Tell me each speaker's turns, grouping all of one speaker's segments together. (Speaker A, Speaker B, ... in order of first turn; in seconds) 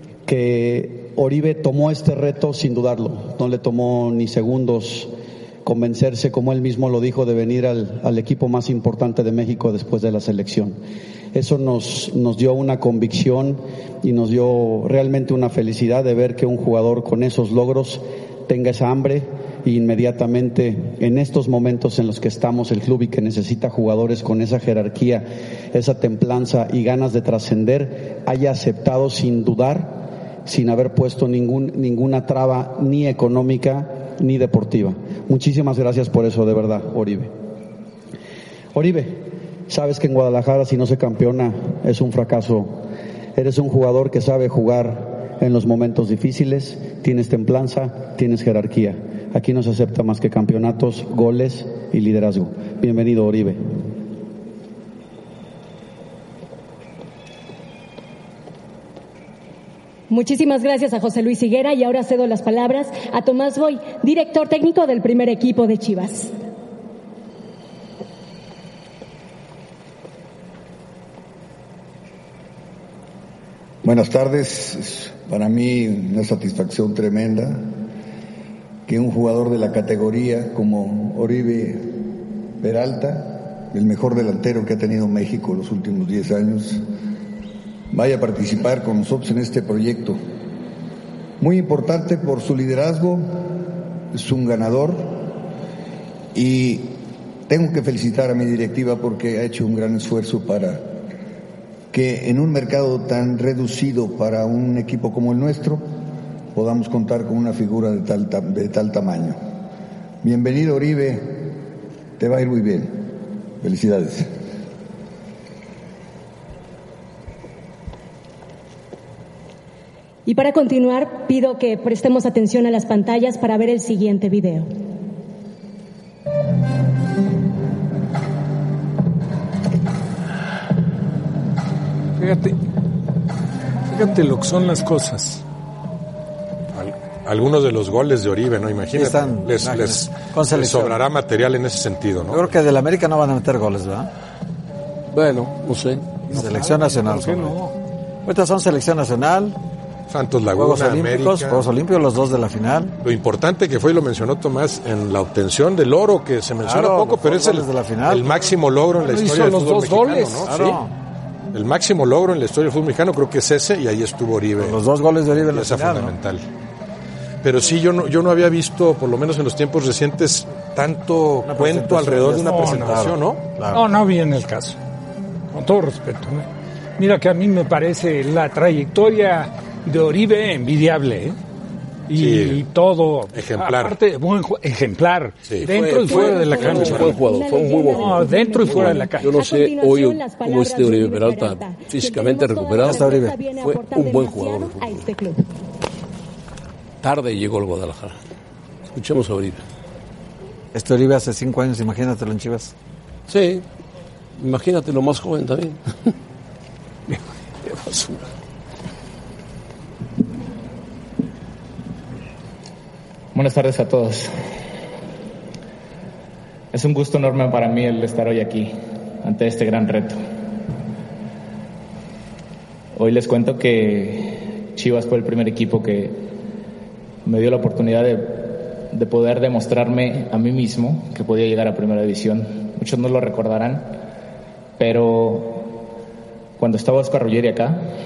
Speaker A: 0.2-5.1, 5.6-10.8, 11.3-37.3, 38.7-42.8, 43.3-53.8
Speaker B: 60.1-66.3, 120.2-124.7, 186.1-195.4
Speaker C: 73.8-77.7, 78.9-82.0, 82.6-86.8, 87.9-90.2, 91.4-93.5, 94.1-95.3, 96.3-100.9, 101.9-105.8, 106.5-109.4, 110.2-111.5, 112.2-113.1, 113.6-114.3
Speaker D: 132.2-132.6, 133.9-135.4, 146.3-147.7, 159.0-160.5, 172.4-173.1, 173.7-174.8, 175.5-181.4, 182.1-187.2, 187.9-189.3
Speaker E: 136.7-142.4, 150.1-151.6, 153.0-160.8, 161.5-164.8, 165.3-166.4, 167.4-173.5, 182.2-182.6, 183.3-183.9, 186.7-187.1
Speaker F: 138.9-141.0, 142.3-144.1, 146.3-147.6, 148.2-149.6, 150.5-152.9, 156.6-158.3, 160.4-160.9, 164.6-166.1, 171.4-173.8, 192.8-193.4, 200.7-202.7
Speaker G: 145.1-146.0, 185.6-195.1, 197.0-198.2, 198.9-199.6, 203.3-203.6, 204.4-206.1
Speaker H: 213.3-214.3, 216.7-220.2, 222.9-226.3, 227.2-234.0, 234.8-235.7, 236.6-237.8